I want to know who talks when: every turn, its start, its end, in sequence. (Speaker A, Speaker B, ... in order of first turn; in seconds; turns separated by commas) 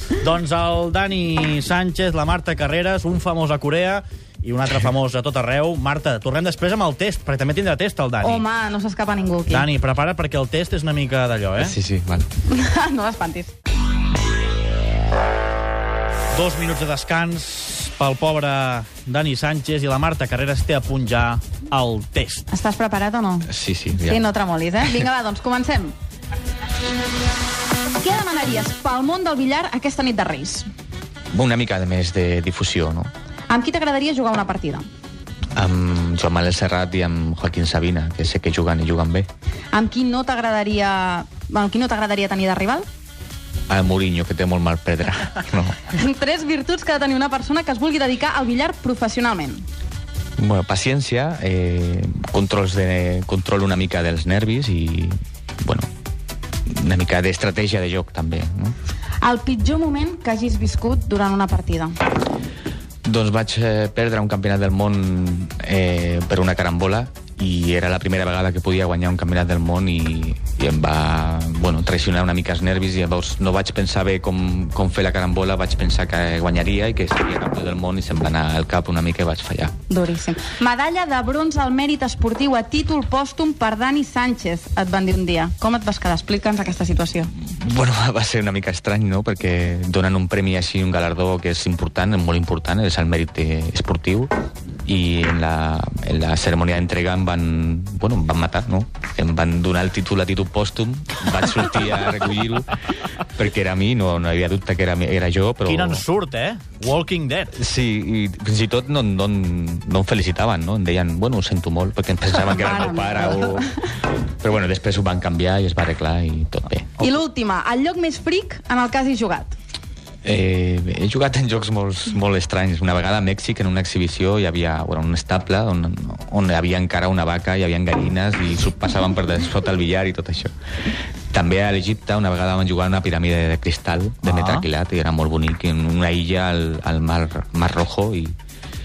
Speaker A: 0.2-8.4, Speaker B: 8.2-9.7, Speaker A: 9.5-11.7, Speaker C: 11.6-12.3, Speaker B: 12.5-13.5, Speaker A: 16.3-22.5, Speaker B: 22.5-25.9, Speaker C: 23.5-24.2, Speaker B: 28.0-30.7, Speaker C: 31.3-33.1, Speaker B: 33.5-34.9, Speaker C: 35.5-39.3, Speaker B: 39.7-42.9, Speaker C: 43.7-45.9, Speaker B: 45.9-49.6, Speaker C: 50.4-55.9, Speaker C: 56.7-58.7, Speaker B: 59.2-61.9, Speaker C: 63.0-79.7, Speaker B: 79.9-87.3, Speaker C: 87.3-94.3, Speaker C: 94.8-102.8, Speaker C: 103.3-106.0, Speaker A: 105.6-107.6, Speaker C: 107.5-113.7, Speaker B: 112.4-113.8, Speaker C: 114.4-117.1, Speaker B: 117.0-119.5, Speaker C: 120.2-130.5, Speaker C: 131.3-138.3, Speaker A: 134.2-134.7